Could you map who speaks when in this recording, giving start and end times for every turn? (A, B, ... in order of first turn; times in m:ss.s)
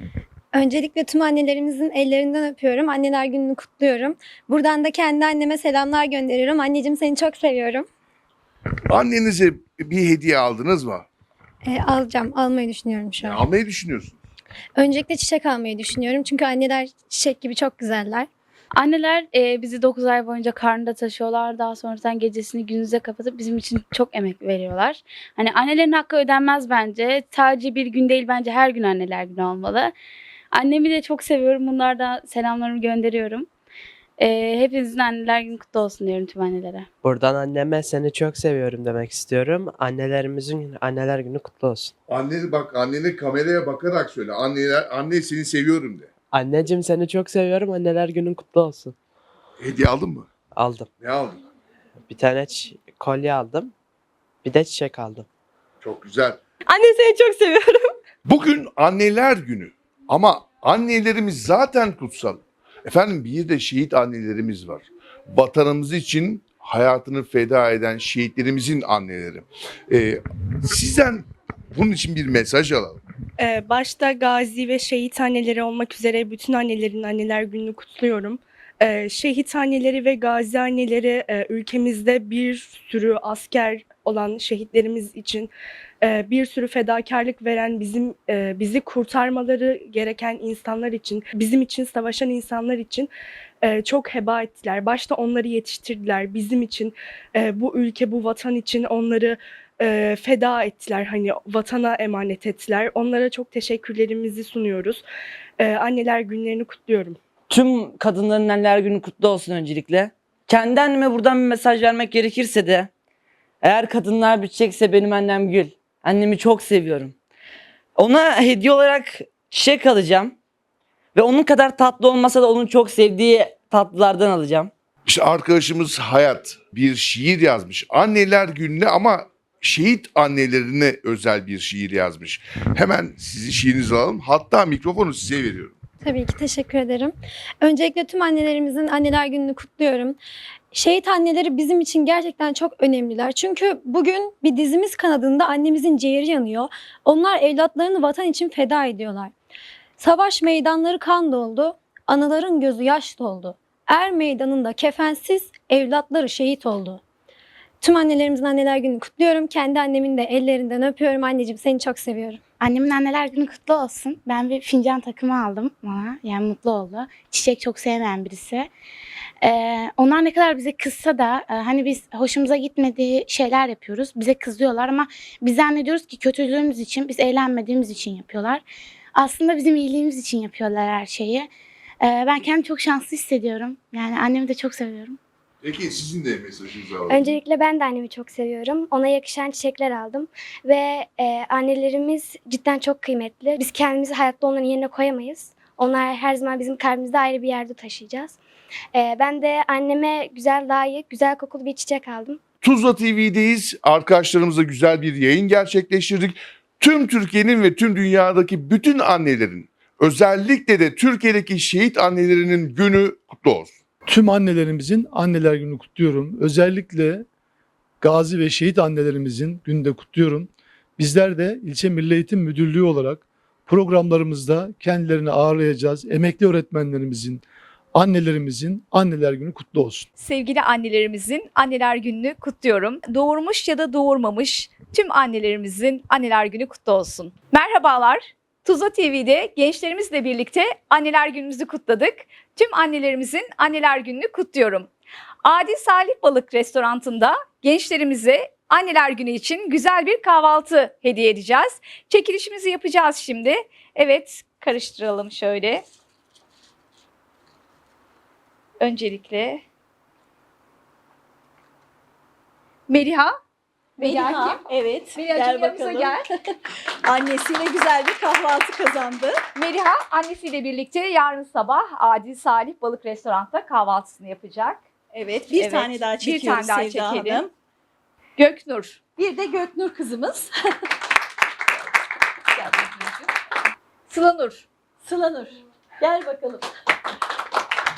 0:00.5-0:07.9 A
0:08.9-0:11.1 B
0:11.6-0:13.4 A
0:13.2-0:14.2 B
0:14.8-0:18.3 A
0:18.8-0:29.9 C
0:30.5-0:33.4 C
0:34.2-0:36.8 C
0:37.0-0:41.9 D
0:42.1-0:46.1 B
0:46.3-0:49.0 D
0:49.6-0:50.3 B
0:50.6-0:50.9 D
0:51.0-0:51.4 B
0:52.1-0:53.7 D
0:54.4-0:55.3 D
0:55.8-0:56.4 B
0:58.2-1:13.0 B
1:13.4-1:33.1 E
1:33.6-1:45.0 E
1:45.6-1:47.2 E
1:47.5-1:52.9 F
1:53.6-1:57.1 F
1:58.0-2:00.3 F
2:01.2-2:04.7 F
2:05.1-2:15.8 B
2:16.0-2:20.2 A
2:20.7-2:29.3 A
2:30.0-2:37.0 A
2:37.8-2:42.4 A
2:42.6-2:48.7 G
2:49.4-2:58.6 G
2:59.2-3:01.5 G
3:02.0-3:05.2 G
3:05.6-3:07.4 B
3:07.1-3:18.4 H
3:18.9-3:22.4 H
3:22.6-3:33.7 B
3:34.1-3:37.2 I
3:38.0-3:47.4 I
3:48.0-3:50.1 I
3:50.2-4:04.9 J
4:05.4-4:15.8 J
4:18.8-4:19.6 J
4:22.9-4:23.3 J
4:24.0-4:24.6 J
4:24.0-4:26.2 K
4:25.1-4:26.2 J
4:27.0-4:29.4 K
4:29.5-4:37.5 J
4:35.5-4:37.5 K
4:38.4-4:40.5 J
4:42.5-4:43.3 J
4:44.1-4:44.7 J
4:46.0-4:46.6 K